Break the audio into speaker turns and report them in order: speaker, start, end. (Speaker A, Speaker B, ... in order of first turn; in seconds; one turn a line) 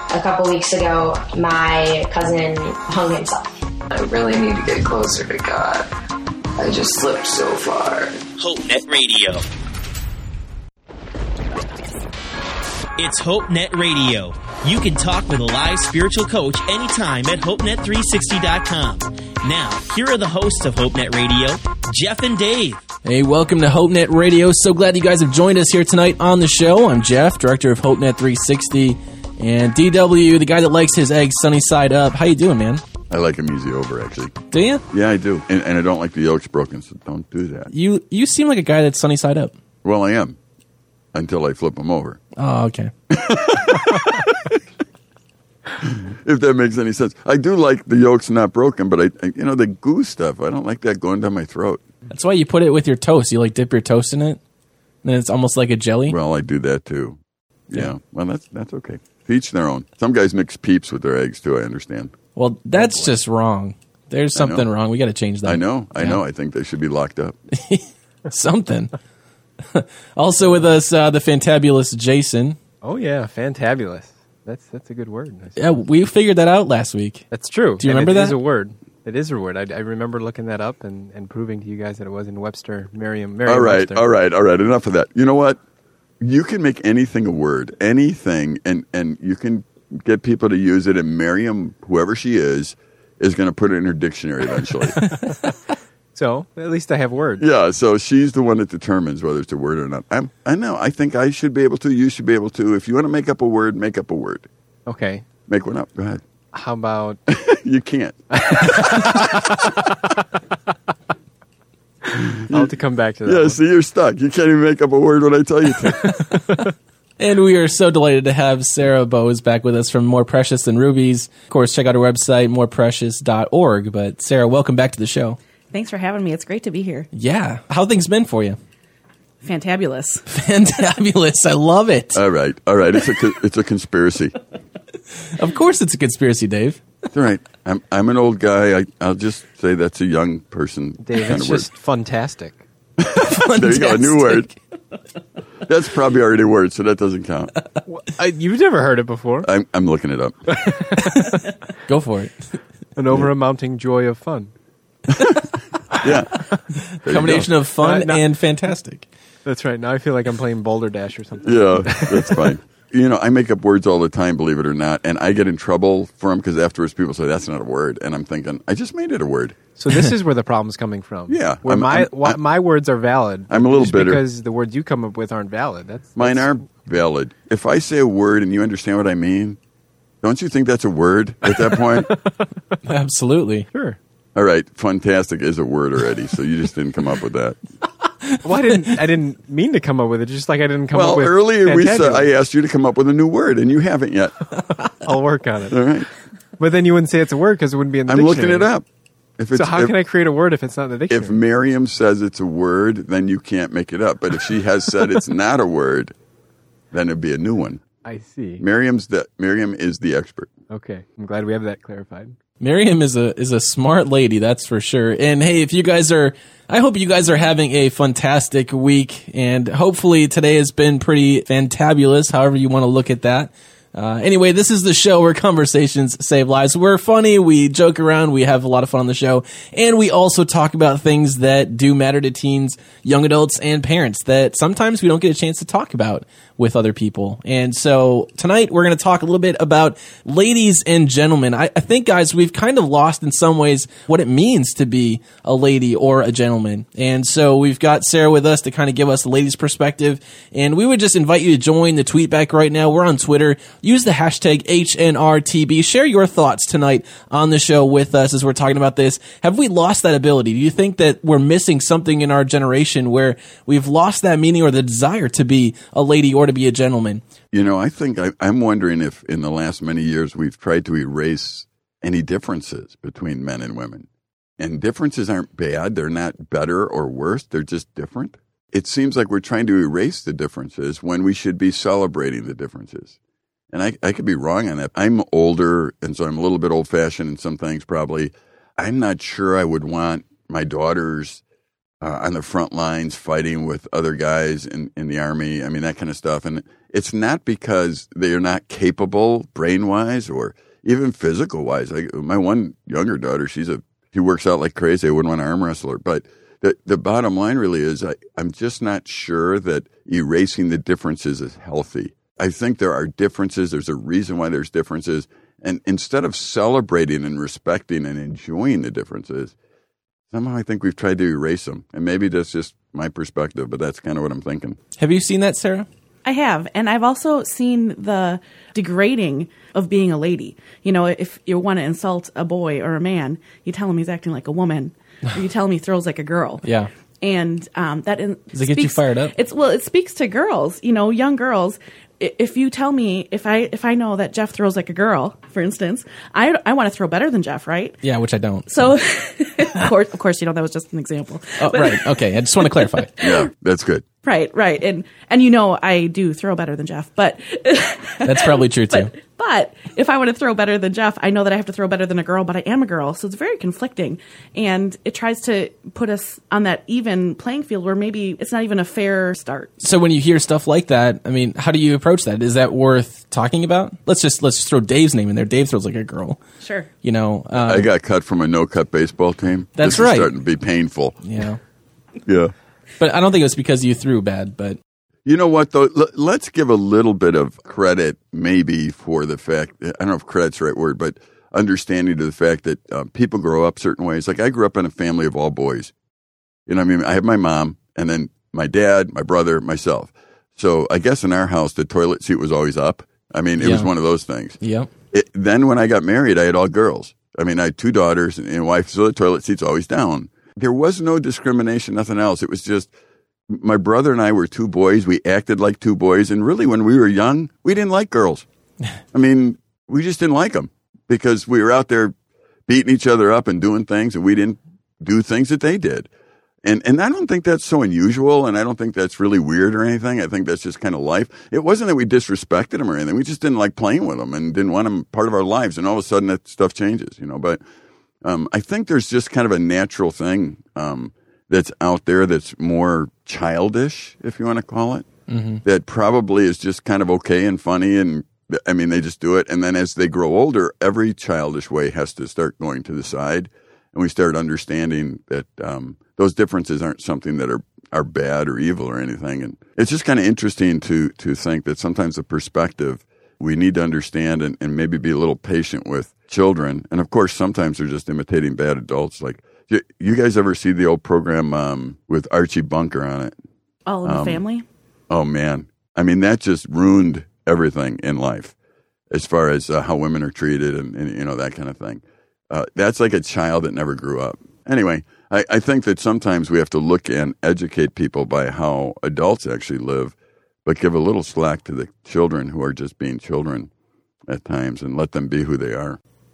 Speaker A: 0.1-3.5
Speaker B: 3.9-5.9
Speaker B: 6.6-8.2
Speaker C: 8.4-9.4
Speaker C: 13.0-22.8
Speaker D: 23.0-32.8
Speaker E: 33.1-34.4
Speaker D: 34.5-34.8
Speaker E: 34.9-37.7
Speaker D: 37.7-39.5
Speaker E: 39.8-40.4
Speaker E: 41.1-42.2
Speaker D: 42.4-42.9
Speaker E: 43.1-44.6
Speaker E: 45.8-51.8
Speaker D: 52.1-54.4
Speaker D: 55.0-56.1
Speaker E: 56.1-57.2
Speaker E: 57.7-62.1
Speaker D: 62.3-66.2
Speaker F: 62.8-63.1
Speaker E: 64.3-64.6
Speaker E: 65.4-67.4
Speaker D: 67.5-68.9
Speaker D: 69.7-72.6
Speaker F: 72.8-75.8
Speaker D: 75.5-78.4
Speaker F: 77.3-84.1
Speaker E: 83.5-85.6
Speaker E: 86.2-95.0
Speaker F: 96.1-97.4
Speaker E: 97.4-104.5
Speaker F: 104.8-105.2
Speaker E: 105.5-106.2
Speaker F: 106.5-107.2
Speaker E: 107.3-109.7
Speaker F: 108.3-110.2
Speaker E: 112.1-112.7
Speaker F: 112.5-113.6
Speaker E: 113.2-116.2
Speaker F: 115.8-116.7
Speaker D: 117.2-125.4
Speaker G: 125.7-127.1
Speaker D: 127.1-128.6
Speaker G: 129.4-130.2
Speaker D: 130.3-132.2
Speaker E: 132.1-134.3
Speaker D: 135.3-136.8
Speaker E: 137.1-141.7
Speaker F: 141.0-142.6
Speaker E: 143.0-144.5
Speaker D: 143.2-144.5
Speaker E: 145.6-147.5
Speaker F: 147.9-149.5
Speaker E: 149.4-150.4
Speaker F: 150.5-151.4
Speaker D: 151.1-152.6
Speaker F: 152.9-154.5
Speaker E: 155.2-155.4
Speaker F: 155.9-156.6
Speaker E: 156.0-156.5
Speaker D: 156.9-159.1
Speaker E: 157.0-157.5
Speaker F: 157.8-158.3
Speaker F: 159.4-162.6
Speaker E: 161.4-169.6
Speaker F: 169.8-176.5
Speaker E: 171.3-172.4
Speaker E: 173.5-174.2
Speaker E: 176.2-179.6
Speaker E: 180.2-182.1
Speaker F: 181.5-182.4
Speaker D: 182.8-183.7
Speaker F: 183.7-184.0
Speaker E: 184.3-187.6
Speaker F: 188.4-192.3
Speaker E: 190.9-194.4
Speaker F: 195.0-195.8
Speaker E: 195.7-196.1
Speaker F: 196.6-198.7
Speaker E: 198.1-198.8
Speaker E: 199.4-199.9
Speaker F: 199.5-201.4
Speaker E: 201.1-206.1
Speaker E: 206.9-207.8
Speaker F: 208.0-208.6
Speaker E: 208.6-210.5
Speaker F: 210.7-212.3
Speaker D: 212.6-267.2
Speaker E: 267.5-274.1
Speaker E: 274.6-283.1
Speaker E: 283.7-291.4
Speaker E: 292.0-319.5
Speaker E: 320.3-324.8
Speaker D: 325.0-325.9
Speaker G: 326.2-336.6
Speaker D: 336.6-336.9
Speaker G: 337.2-348.0
Speaker D: 338.5-339.3
Speaker D: 348.0-348.9
Speaker G: 348.7-353.5
Speaker D: 351.6-353.1
Speaker E: 353.2-354.0
Speaker G: 354.2-369.7
Speaker D: 358.2-359.1
Speaker D: 369.8-376.4
Speaker G: 376.6-376.9
Speaker D: 377.0-377.9
Speaker E: 377.5-381.2
Speaker D: 379.8-380.3
Speaker D: 381.2-381.6
Speaker E: 382.2-382.5
Speaker D: 383.0-384.8
Speaker E: 385.2-395.9
Speaker E: 396.7-404.6
Speaker D: 403.6-403.9
Speaker D: 404.6-404.9
Speaker E: 405.1-412.9
Speaker E: 413.5-418.4
Speaker E: 419.1-422.1
Speaker E: 422.7-426.1
Speaker E: 426.6-437.6
Speaker E: 438.2-445.1
Speaker D: 445.3-445.6
Speaker E: 445.6-473.3
Speaker G: 473.9-474.6
Speaker E: 474.0-474.4
Speaker E: 475.1-478.5
Speaker E: 479.1-493.7
Speaker E: 494.3-496.0